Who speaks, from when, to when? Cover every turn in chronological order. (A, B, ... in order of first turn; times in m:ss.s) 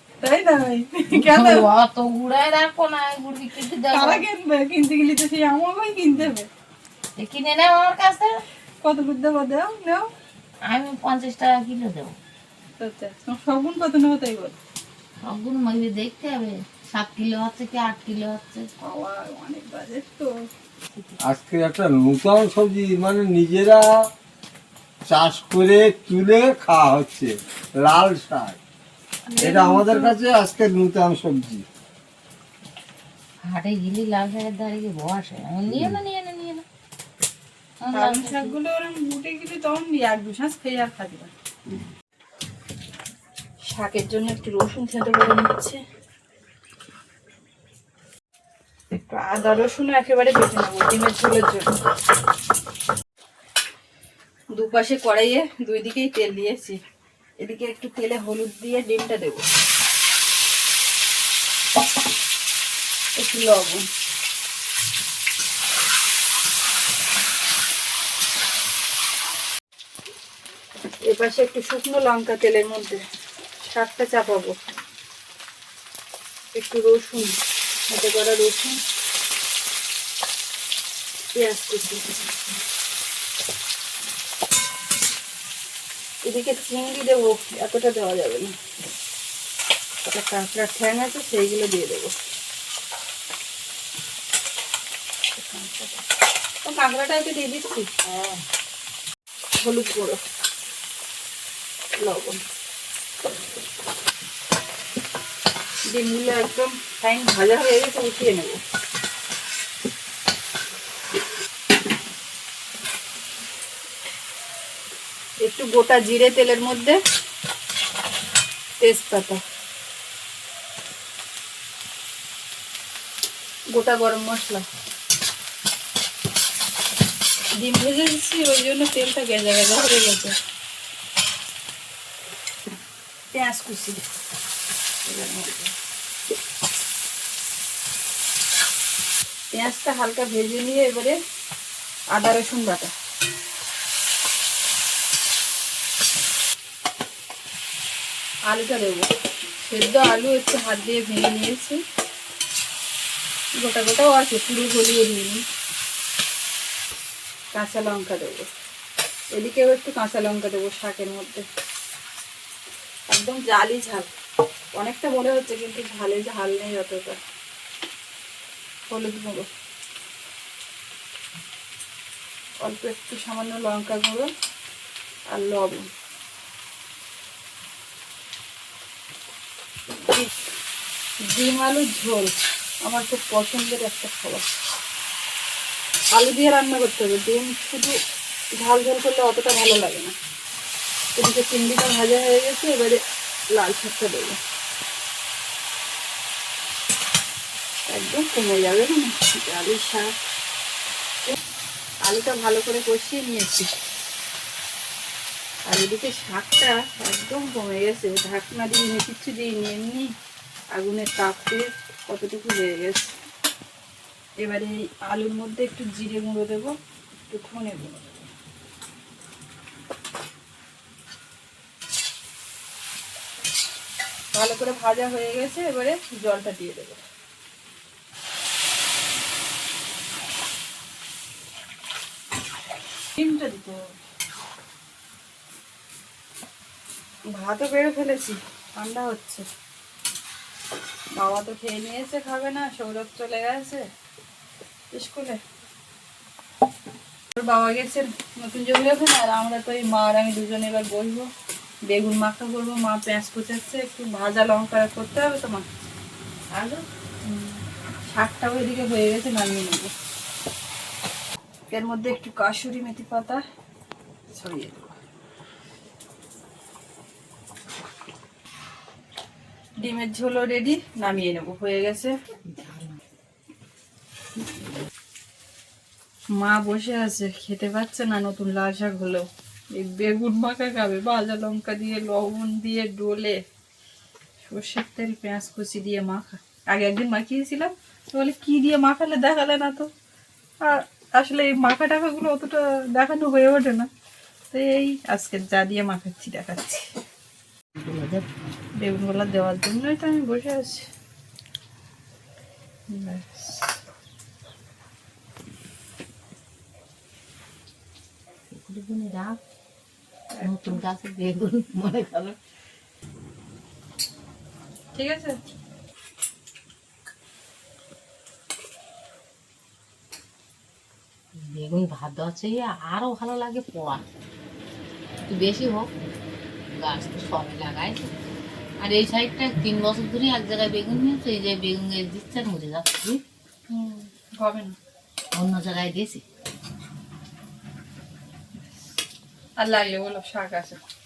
0:00.2-0:01.7 A
0:01.1-0:04.2 B
0:03.9-0:06.5 A
0:07.2-0:08.4 B
0:08.8-0:10.1 A
0:10.6-0:12.2 B
0:12.8-0:14.6 A
0:15.2-0:18.7 B
0:18.8-0:20.3 A
0:21.2-0:23.9 C
0:25.1-0:28.6 C
0:29.3-0:30.1 A
0:29.4-0:31.6 C
0:33.4-0:36.6 B
0:35.7-0:36.0 C
0:37.8-0:38.5 B
0:37.9-0:41.3 A
0:43.7-0:45.8 A
0:48.9-0:51.8 A
0:54.6-0:56.8 A
0:57.4-0:59.4 A
1:03.2-1:03.8 A
1:11.0-1:13.0 A
1:13.6-1:14.5 A
1:16.5-1:17.3 A
1:17.9-1:18.8 A
1:21.3-1:22.2 A
1:26.2-1:28.5 A
1:30.1-1:32.1 A
1:35.4-1:36.0 A
1:36.6-1:37.9 A
1:38.1-1:38.4 B
1:39.6-1:40.2 A
1:42.0-1:42.4 A
1:45.9-1:48.6 A
1:55.4-1:57.0 A
1:58.8-1:59.4 A
2:03.7-2:04.6 A
2:07.6-2:10.3 A
2:13.3-2:14.0 A
2:15.0-2:15.7 A
2:19.5-2:21.2 A
2:22.1-2:22.9 A
2:28.5-2:29.1 A
2:29.6-2:31.8 A
2:33.6-2:35.4 A
2:37.5-2:38.5 A
2:39.3-2:41.4 A
2:43.1-2:44.1 A
2:44.7-2:47.2 A
2:48.9-2:49.5 A
2:52.6-2:54.3 A
2:55.3-2:55.9 A
3:01.3-3:02.3 A
3:02.8-3:04.4 A
3:06.1-3:08.0 A
3:08.6-3:10.1 A
3:11.2-3:13.0 A
3:13.5-3:14.4 A
3:17.9-3:20.1 A
3:22.0-3:23.7 A
3:25.7-3:30.1 A
3:30.7-3:33.1 A
3:34.4-3:36.7 A
3:37.3-3:38.3 A
3:44.3-3:47.0 A
3:53.2-3:53.8 A
3:57.3-3:59.4 A
4:01.2-4:03.8 A
4:04.9-4:05.4 A
4:07.3-4:11.3 A
4:11.9-4:15.7 A
4:16.5-4:16.8 B
4:17.2-4:19.9 A
4:21.7-4:23.4 A
4:24.3-4:25.0 A
4:29.8-4:32.1 A
4:32.4-4:33.0 B
4:36.3-4:43.4 A
4:44.4-4:49.9 A
4:50.6-4:53.9 A
4:54.5-4:56.9 A
4:57.7-4:58.3 B
4:58.8-5:00.9 A
5:02.9-5:03.7 A
5:08.5-5:09.4 B
5:10.3-5:10.8 A
5:10.4-5:12.4 B
5:14.9-5:15.4 A
5:21.3-5:24.0 B
5:25.2-5:25.9 B
5:26.7-5:28.1 B
5:28.8-5:33.2 B
5:33.7-5:34.8 A
5:35.3-5:36.2 B
5:39.6-5:40.8 A